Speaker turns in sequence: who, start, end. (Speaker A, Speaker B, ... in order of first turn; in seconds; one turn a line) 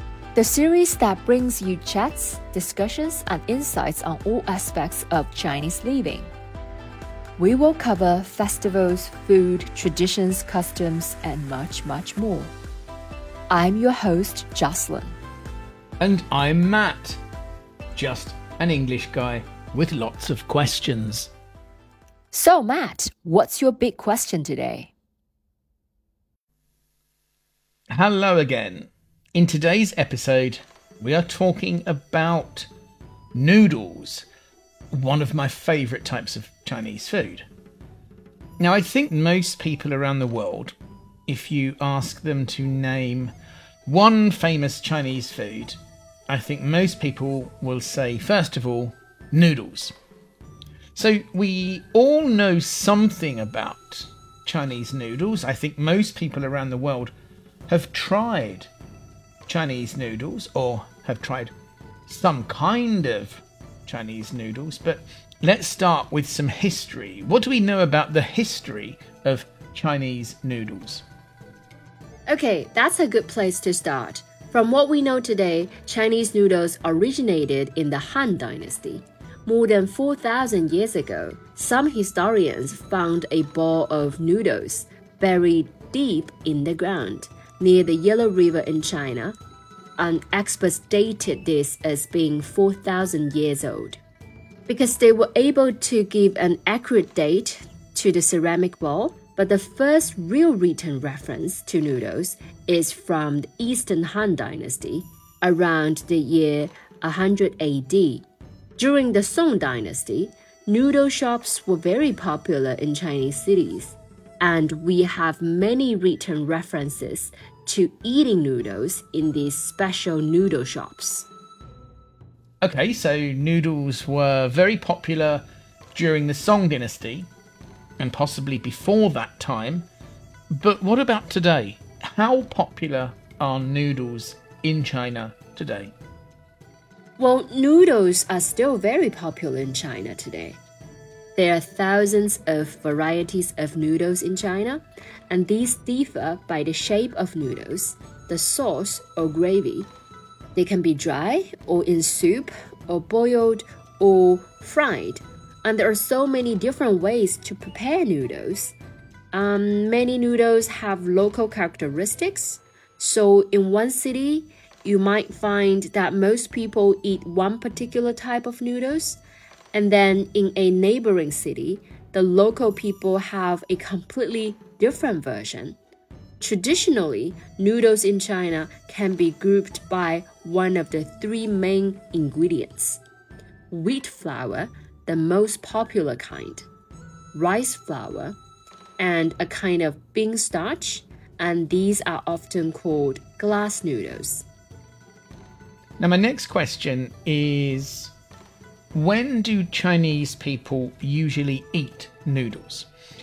Speaker A: 0.3-6.3
Speaker A: 7.4-12.5
Speaker A: 13.5-15.2
Speaker B: 16.0-17.2
Speaker B: 17.9-21.3
Speaker A: 22.3-24.9
Speaker B: 27.9-32.7
Speaker B: 33.3-34.2
Speaker B: 34.9-37.5
Speaker B: 38.6-40.7
Speaker B: 41.3-43.3
Speaker B: 43.9-45.8
Speaker B: 46.3-49.9
Speaker B: 50.9-57.1
Speaker B: 57.7-58.7
Speaker B: 59.5-61.5
Speaker B: 62.1-71.0
Speaker A: 72.3-89.3
Speaker A: 90.0-94.0
Speaker A: 94.7-108.2
Speaker A: 108.8-121.3
Speaker B: 122.6-127.3
Speaker B: 128.0-129.9
Speaker B: 130.5-135.9
Speaker A: 137.2-140.6
Speaker A: 141.3-149.9
Speaker A: 150.5-158.7
Speaker A: 159.3-169.2
Speaker A: 169.7-175.8
Speaker A: 176.4-183.0
Speaker A: 183.7-186.7
Speaker A: 187.3-188.4
Speaker A: 189.0-194.4
Speaker B: 196.0-198.1
Speaker B: 198.9-202.9